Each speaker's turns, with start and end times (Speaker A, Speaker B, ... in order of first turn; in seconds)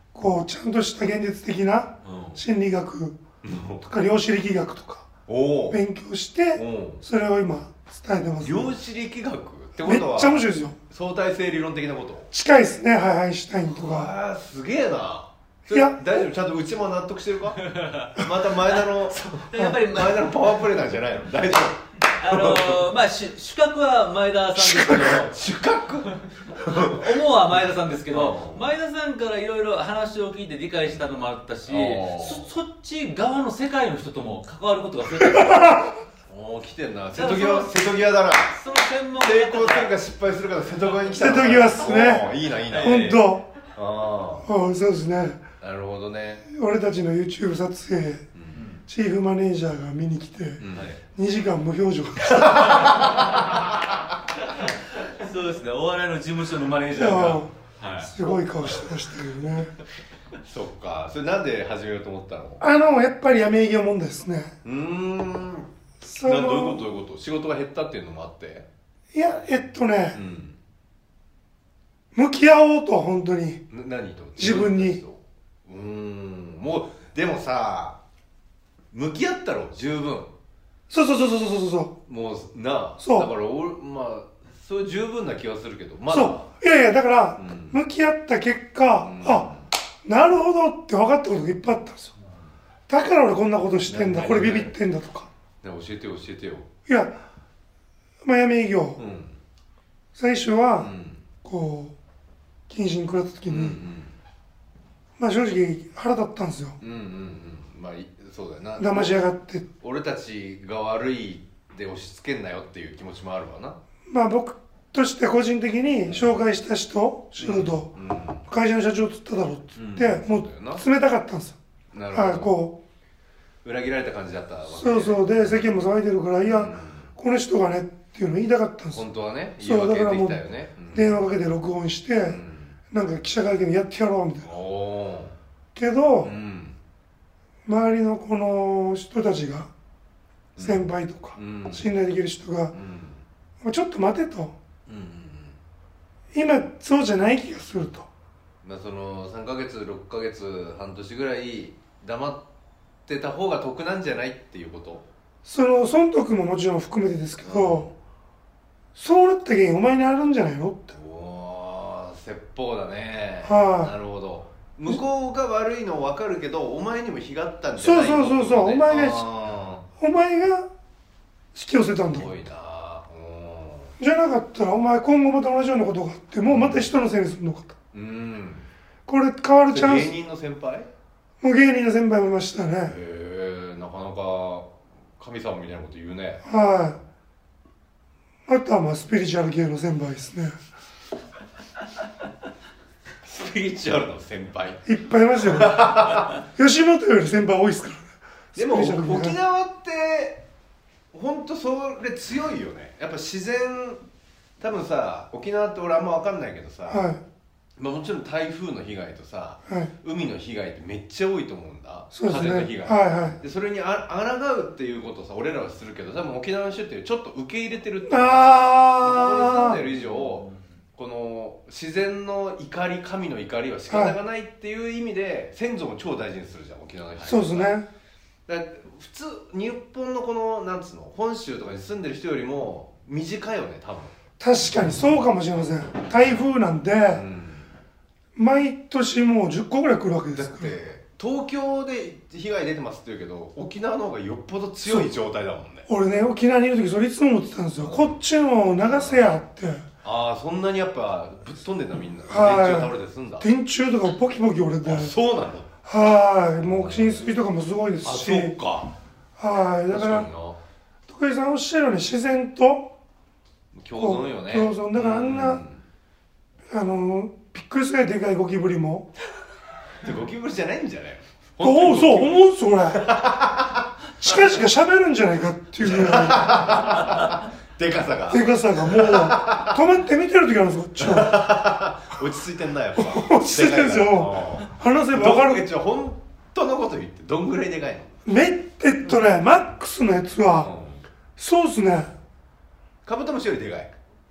Speaker A: 0.1-3.2, 3.8-5.1, 5.7-8.8, 9.8-10.8, 12.3-14.1, 15.7-16.0, 24.6-25.2, 35.2-36.0, 41.1-43.4, 44.5-45.4, 46.5-48.2, 48.9-50.6, 51.1-52.9, 56.9-57.5, 58.0-59.7, 62.6-64.5, 66.0-66.8, 69.1-70.2, 72.1-73.6, 74.4-75.0, 80.9-81.9, 83.0-83.3, 86.1-89.5, 90.0-92.1, 92.9-95.3, 96.9-97.2, 98.2-99.0, 100.2-100.9, 101.4-101.9, 102.7-103.8, 105.2-106.8, 108.8-109.7, 114.1-117.9, 118.5-121.6, 122.1-122.8, 124.7-129.0, 129.6-130.4, 130.9-132.4, 132.9-134.5, 135.8-136.3, 137.7-139.7, 140.6-142.7, 143.6-144.5, 146.3-148.1, 155.4-157.9, 158.9-160.9, 163.4-163.9, 167.8-169.2, 170.0-170.7, 171.5-172.3, 174.0-177.7, 179.1-180.1, 181.4-182.9, 186.4-187.0, 188.5-190.6, 194.9-195.9, 196.6-199.4, 206.9-207.2, 212.1-213.4, 218.1-219.8, 223.9-224.2, 227.3-227.9, 234.4-237.2, 238.4-240.8, 245.9-249.9, 252.3-255.1, 255.9-258.6, 259.4-260.3, 261.1-262.9, 264.0-265.6, 266.7-269.1, 271.6-273.1, 274.2-276.7, 278.3-281.4, 283.0-285.6, 288.3-290.7, 291.4-292.1
Speaker B: 2.0-2.4, 3.4-3.9, 5.3-5.8, 6.5-7.0, 8.4-12.3, 13.7-22.9, 25.1-27.1, 28.1-28.7, 31.7-32.5, 36.3-38.6, 39.2-44.5, 45.6-46.5, 48.4-48.6, 50.6-51.0, 52.3-53.9, 60.4-62.6, 64.6-65.7, 66.2-68.7, 70.1-70.6, 73.7-78.0, 78.9-80.3, 82.1-86.5, 87.4-87.8, 89.0-89.7, 93.9-94.8, 95.6-96.7, 99.0-99.4, 100.8-101.2, 103.5-104.2, 106.8-109.2, 109.8-113.8, 116.1-116.3, 117.4-118.5, 119.8-120.8, 121.9-122.5, 123.6-125.7, 126.4-127.1, 128.9-131.2, 132.2-132.8, 134.4-135.3, 136.2-136.8, 140.6-141.9, 142.7-143.2, 144.9-145.6, 148.6-152.5, 153.1-155.1, 157.4-157.9, 160.9-169.8, 172.1-173.9, 176.4-176.9, 177.9-178.7, 179.7-180.9, 182.9-186.4, 193.2-194.8, 195.4-196.4, 198.6-200.4, 201.1-204.0, 204.6-207.1, 207.8-220.5, 221.0-227.8, 228.5-234.1, 237.1-237.7, 240.3-245.9, 247.8-248.1, 248.9-249.3, 250.0-253.5, 254.8-255.7, 256.6-257.2, 258.0-258.9, 259.9-260.6, 263.7-265.8, 270.0-273.9, 275.8-279.8, 281.0-288.1, 290.6-291.1, 293.1-293.9
Speaker C: 17.6-18.1, 18.7-20.7, 22.2-25.4, 26.6-35.7, 37.1-37.8, 38.5-40.0, 42.7-43.2, 48.5-48.8, 55.1-58.1, 219.9-220.6